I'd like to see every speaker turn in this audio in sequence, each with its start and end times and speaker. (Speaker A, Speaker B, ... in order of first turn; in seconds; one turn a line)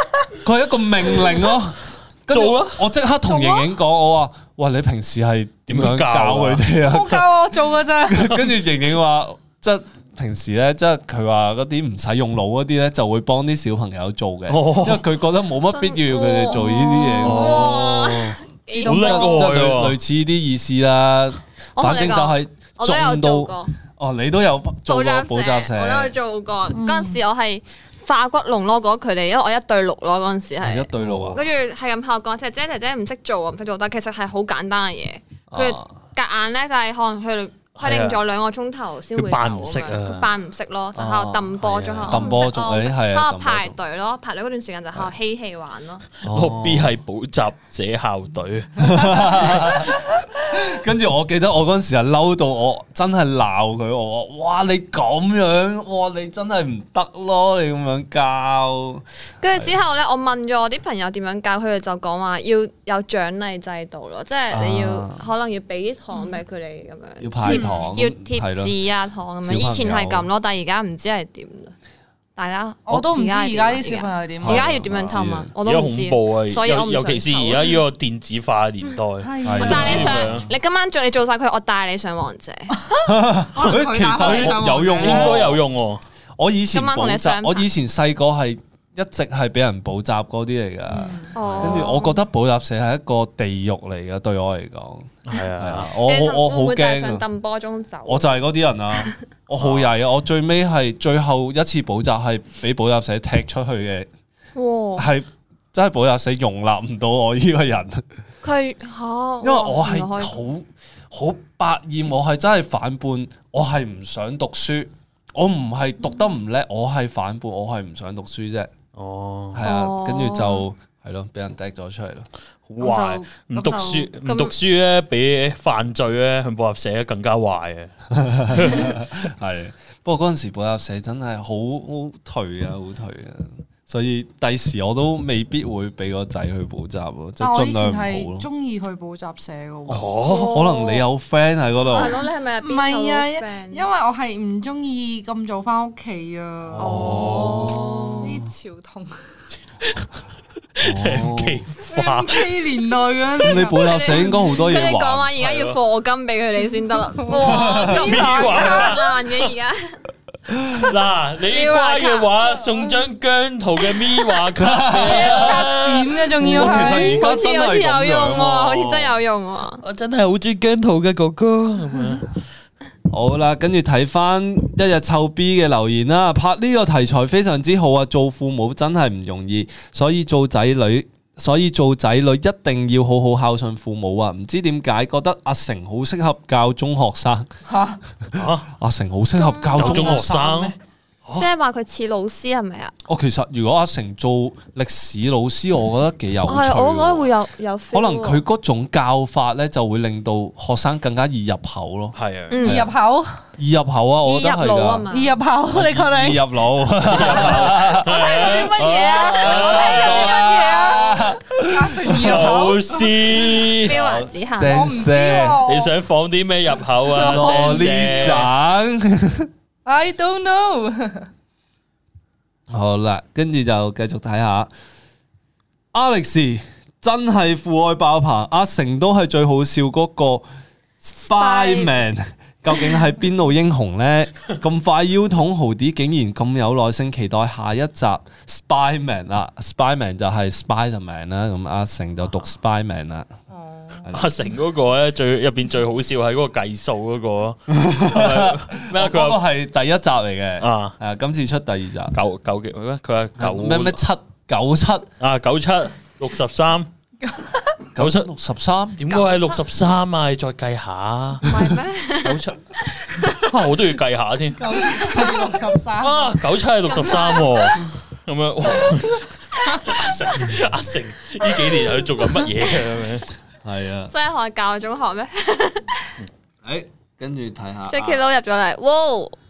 Speaker A: 0.4-7.2
Speaker B: 2.3-2.9
Speaker C: 3.2-3.7
Speaker B: 5.7-6.7
Speaker C: 6.8-8.4
Speaker A: 8.1-26.1
Speaker B: 14.5-15.1
Speaker D: 15.7-19.5
Speaker B: 17.2-18.1
Speaker C: 17.3-17.5
Speaker C: 18.7-19.5
Speaker B: 18.8-20.0
Speaker D: 21.8-23.7
Speaker D: 24.9-46.1
Speaker C: 26.7-27.2
Speaker A: 30.6-31.4
Speaker B: 31.0-31.4
Speaker A: 35.5-36.0
Speaker B: 37.8-38.2
Speaker B: 39.1-40.3
Speaker A: 41.0-41.5
Speaker B: 41.6-42.5
Speaker A: 42.1-43.8
Speaker B: 46.2-49.9
Speaker A: 46.2-47.0
Speaker A: 48.8-59.0
Speaker D: 59.4-71.7
Speaker A: 64.5-65.2
Speaker A: 67.2-68.8
Speaker C: 67.5-67.8
Speaker A: 69.4-70.3
Speaker D: 72.4-77.8
Speaker C: 72.9-74.7
Speaker A: 74.4-75.5
Speaker B: 75.6-80.5
Speaker C: 79.2-80.2
Speaker A: 79.4-80.5
Speaker D: 79.6-82.7
Speaker C: 82.7-85.4
Speaker A: 83.0-85.6
Speaker B: 83.7-86.0
Speaker A: 86.4-97.2
Speaker D: 86.7-87.7
Speaker C: 90.9-91.3
Speaker D: 91.3-92.2
Speaker B: 91.4-92.0
Speaker B: 95.2-95.9
Speaker D: 96.0-98.4
Speaker A: 98.1-104.1
Speaker B: 99.6-99.9
Speaker D: 104.5-105.1
Speaker A: 105.0-108.0
Speaker D: 108.4-110.3
Speaker A: 109.4-118.7
Speaker B: 119.0-119.6
Speaker A: 119.5-122.3
Speaker D: 119.6-120.7
Speaker B: 122.7-127.9
Speaker C: 122.8-124.1
Speaker D: 124.2-124.5
Speaker A: 128.1-138.5
Speaker B: 128.5-129.1
Speaker C: 137.4-140.1
Speaker A: 139.9-142.2
Speaker B: 139.9-140.6
Speaker D: 140.2-141.1
Speaker D: 141.9-143.9
Speaker C: 142.6-146.9
Speaker B: 146.7-147.8
Speaker D: 146.8-148.4
Speaker A: 146.8-148.4
Speaker C: 148.2-149.2
Speaker B: 150.8-152.5
Speaker A: 150.8-151.7
Speaker C: 151.8-154.6
Speaker A: 153.4-155.3
Speaker D: 153.5-160.0
Speaker B: 155.4-155.8
Speaker C: 157.2-159.0
Speaker A: 157.4-157.9
Speaker B: 157.9-159.5
Speaker A: 160.5-160.9
Speaker B: 160.7-166.3
Speaker D: 161.5-162.7
Speaker A: 164.6-165.7
Speaker C: 165.0-167.2
Speaker A: 166.4-169.2
Speaker D: 166.6-169.8
Speaker B: 169.8-172.4
Speaker A: 173.1-187.5
Speaker C: 187.7-188.0
Speaker A: 188.2-190.8
Speaker B: 188.3-188.7
Speaker D: 189.4-190.3
Speaker B: 189.8-190.8
Speaker D: 191.4-192.9
Speaker A: 193.1-197.3
Speaker D: 196.5-198.4
Speaker A: 197.9-202.9
Speaker B: 202.2-202.6
Speaker D: 202.5-202.9
Speaker C: 202.6-203.4
Speaker A: 203.6-205.1
Speaker D: 204.2-205.4
Speaker C: 205.1-206.4
Speaker A: 205.7-212.4
Speaker B: 207.0-210.4
Speaker C: 207.5-213.2
Speaker B: 212.2-214.0
Speaker A: 213.6-215.6
Speaker D: 213.8-215.0
Speaker C: 214.7-215.9
Speaker B: 215.7-218.5
Speaker C: 217.1-218.1
Speaker A: 217.1-219.5
Speaker C: 219.8-221.3
Speaker A: 222.7-224.7
Speaker A: 225.9-230.5
Speaker A: 231.0-243.3
Speaker D: 231.3-232.0
Speaker C: 243.5-244.1
Speaker A: 244.0-244.3
Speaker B: 244.1-249.4
Speaker A: 247.7-252.2
Speaker B: 250.6-251.0
Speaker B: 252.1-254.0
Speaker A: 253.4-255.1
Speaker B: 255.2-256.9
Speaker C: 257.3-257.7
Speaker A: 257.9-259.0
Speaker B: 258.0-258.3
Speaker B: 259.0-261.5
Speaker D: 259.1-259.6
Speaker D: 261.4-263.5
Speaker B: 262.2-262.6
Speaker B: 263.3-265.1
Speaker C: 264.6-266.4
Speaker B: 266.0-273.3
Speaker D: 266.9-267.8
Speaker A: 273.6-274.1
Speaker D: 274.1-276.1
Speaker A: 276.6-278.2
Speaker D: 277.9-279.4